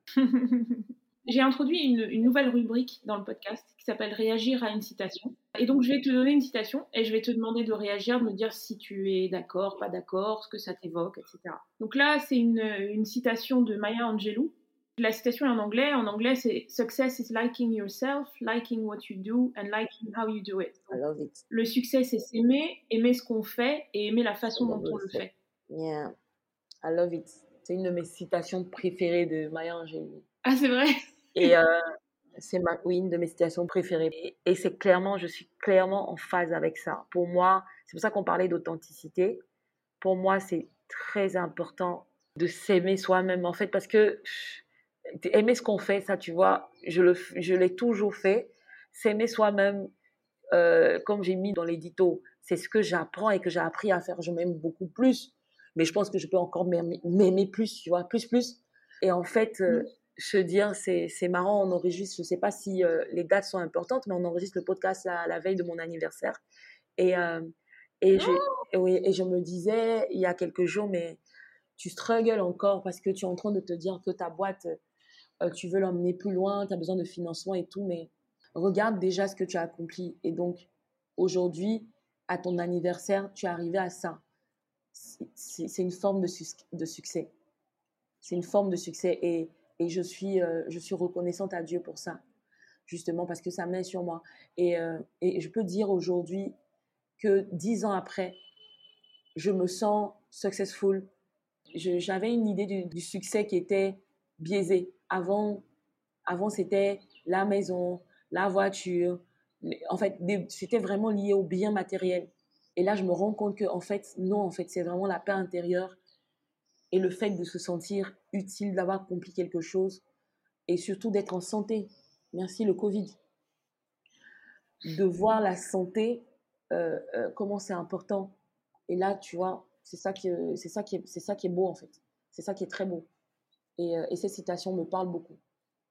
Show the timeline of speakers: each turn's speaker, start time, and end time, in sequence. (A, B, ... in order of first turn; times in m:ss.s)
0:00.2-0:21.0 A
0:20.9-0:21.4 B
0:21.5-0:25.3 A
0:24.6-0:26.2 B
0:26.8-0:30.2 B
0:30.4-0:31.5 A
0:31.4-0:31.8 B
0:32.4-0:39.4 B
0:40.0-0:44.6 B
0:45.2-0:49.9 B
0:50.5-1:06.4 B
1:07.0-1:07.5 B
1:08.0-1:11.2 B
1:08.2-1:08.6 A
1:11.8-1:14.8 B
1:15.4-1:24.2 B
1:24.9-1:27.3 B
1:28.2-1:32.2 B
1:32.9-1:36.6 B
1:37.2-1:38.4 B
1:39.4-1:41.1 B
1:41.8-1:45.6 B
1:46.3-1:56.0 B
1:56.9-2:00.0 B
2:00.7-2:03.2 B
2:04.8-2:08.4 B
2:08.9-2:13.1 B
2:13.8-2:15.4 B